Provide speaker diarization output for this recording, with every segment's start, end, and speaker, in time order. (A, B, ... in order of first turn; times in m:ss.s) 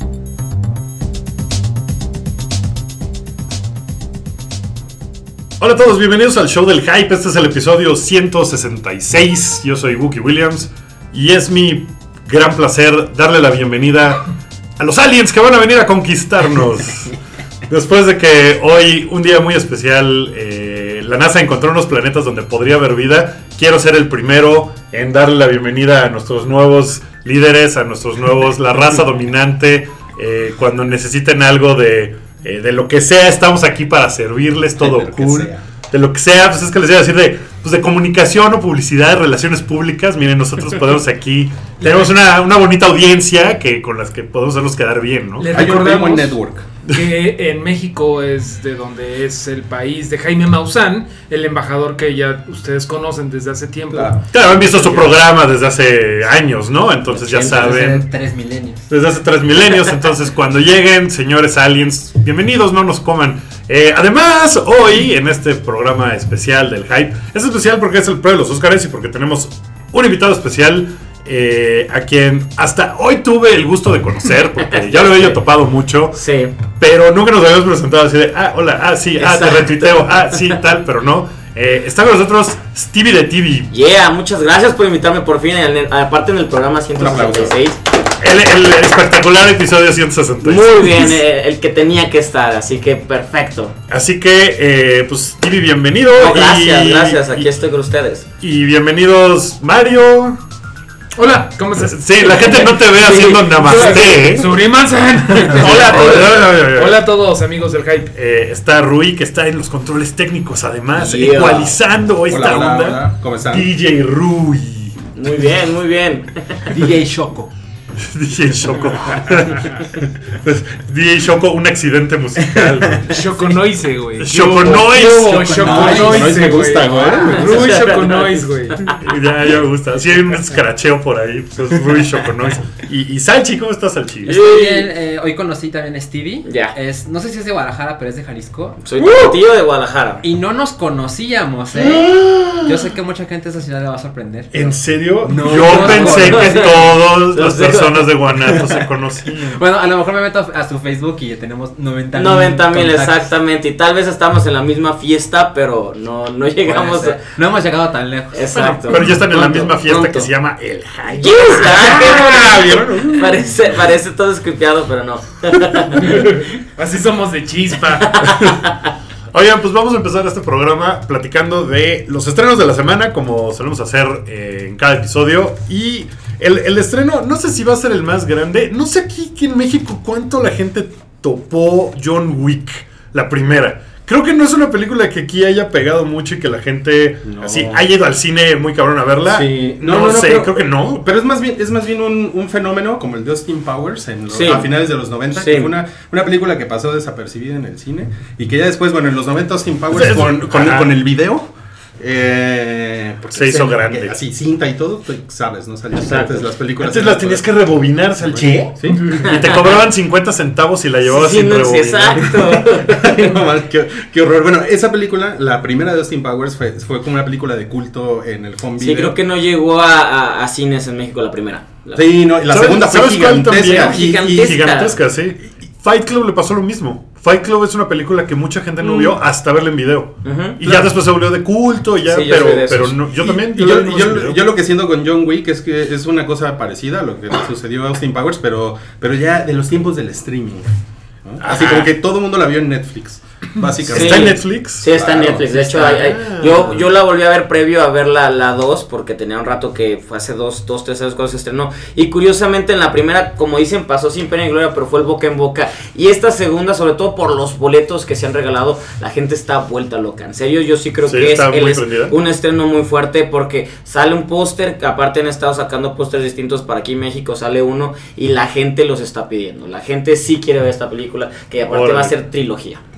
0:05.6-0:17.1 A
0:17.7-0:45.6 A
0:34.8-0:35.6 B
0:45.4-0:55.1 C
0:45.5-0:46.7 B
0:53.9-0:54.2 B
0:54.3-0:58.1 A
0:57.1-0:58.9 D
0:57.3-0:57.6 E
0:58.9-1:16.2 A
1:14.7-1:15.4 E
1:16.1-1:16.5 E
1:16.7-1:23.7 A
1:19.2-1:20.6 E
1:23.7-1:27.8 E
1:27.0-1:27.6 B
1:28.2-1:31.2 A
1:30.4-1:33.7 E
1:33.9-1:37.5 A
1:36.2-1:38.3 E
1:38.4-1:40.4 A
1:41.2-1:42.7 C
1:41.8-1:44.6 A
1:42.2-1:43.5 E
1:43.4-1:48.1 C
1:45.4-1:47.0 A
1:48.1-1:55.0 A
1:50.9-1:51.8 E
1:52.3-1:53.7 B
1:55.2-1:56.6 E
1:56.6-1:57.5 D
1:58.0-2:03.2 A
2:03.0-2:08.9 C
2:04.2-2:05.4 A
2:04.6-2:07.6 D
2:05.6-2:07.4 B
2:07.3-2:09.0 E
2:09.0-2:14.5 A
2:14.2-2:14.9 E
2:14.3-2:19.2 D
2:16.4-2:16.7 E
2:18.8-2:20.2 E
2:20.2-2:27.0 D
2:21.8-2:22.8 A
2:24.5-2:29.6 A
2:25.5-2:28.1 E
2:29.5-2:33.3 D
2:32.1-2:37.2 E
2:36.6-2:38.7 D
2:38.3-2:40.3 E
2:38.8-2:43.8 A
2:41.1-2:46.6 E
2:46.0-2:48.2 C
2:47.9-2:48.8 E
2:49.3-3:11.0 A
3:07.2-3:07.9 B
3:09.2-3:27.6 B
3:14.3-3:14.7 E
3:15.3-3:15.7 E
3:19.9-3:20.9 A
3:23.3-3:24.1 A
3:26.0-3:26.4 E
3:26.8-3:32.6 A
3:28.2-3:29.3 B
3:29.2-3:29.8 E
3:31.0-3:33.2 E
3:32.3-3:39.2 B
3:38.8-3:42.0 E
3:41.9-3:44.6 B
3:42.5-3:54.4 A
3:43.6-3:45.0 E
3:48.8-3:49.2 E
3:50.2-3:50.6 E
3:50.6-3:50.9 B
3:52.0-3:53.0 E
3:53.1-4:00.7 B
4:01.2-4:05.5 B
4:01.4-4:01.9 A
4:03.8-4:04.9 A
4:03.9-4:32.8 E
4:05.4-4:06.9 A
4:21.0-4:22.2 A
4:31.7-4:32.1 A